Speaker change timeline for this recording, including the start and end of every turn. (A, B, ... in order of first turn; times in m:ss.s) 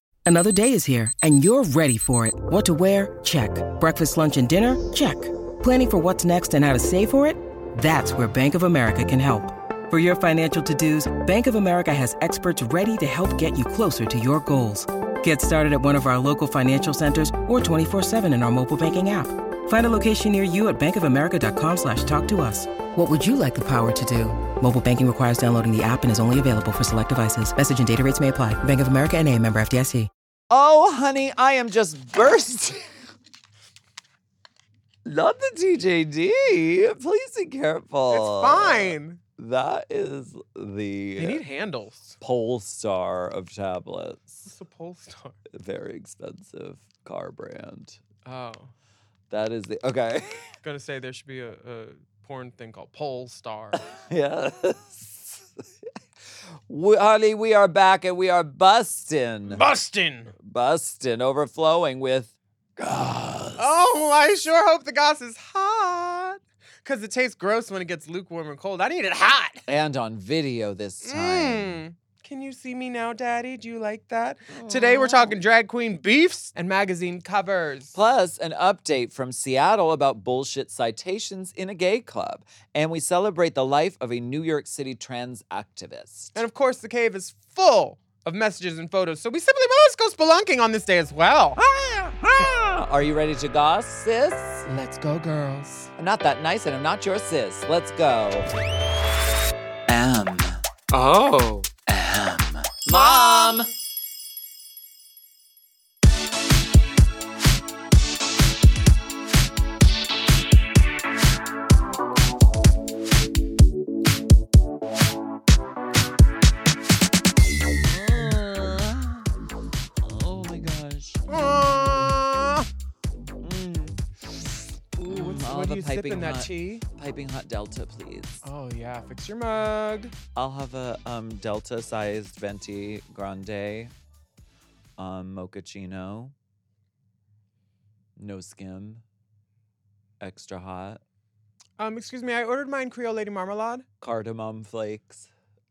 0:00.2-0:30.1 A
0:30.5-0:32.9 B
0:35.0-0:41.4 B
0:38.1-0:39.2 C
0:41.2-0:42.2 C
0:42.2-0:44.5 B
0:44.4-0:45.4 C
0:45.5-0:48.0 B
0:48.2-0:48.7 C
0:49.3-0:50.5 B
0:50.6-0:53.8 C
0:53.7-0:55.6 B
0:56.4-0:59.6 B
0:59.5-1:00.3 C
1:00.4-1:03.8 B
1:03.6-1:09.6 C
1:09.7-1:11.8 B
1:11.0-1:18.0 C
1:14.5-1:15.4 B
1:17.9-1:26.4 B
1:26.3-1:31.6 C
1:31.6-1:34.6 B
1:34.6-1:35.9 C
1:36.0-1:38.5 B
1:39.9-1:40.6 B
1:40.9-1:41.7 C
1:41.7-1:43.7 B
1:57.8-1:59.3 B
2:00.0-2:02.2 B
2:01.3-2:02.7 C
2:03.4-2:04.0 B
2:05.0-2:06.8 C
2:05.0-2:08.4 B
2:08.4-2:10.1 C
2:10.3-2:13.9 B
2:15.0-2:16.3 B
2:18.2-2:19.0 B
2:20.2-2:21.0 B
2:21.8-2:23.8 C
2:24.0-2:25.3 B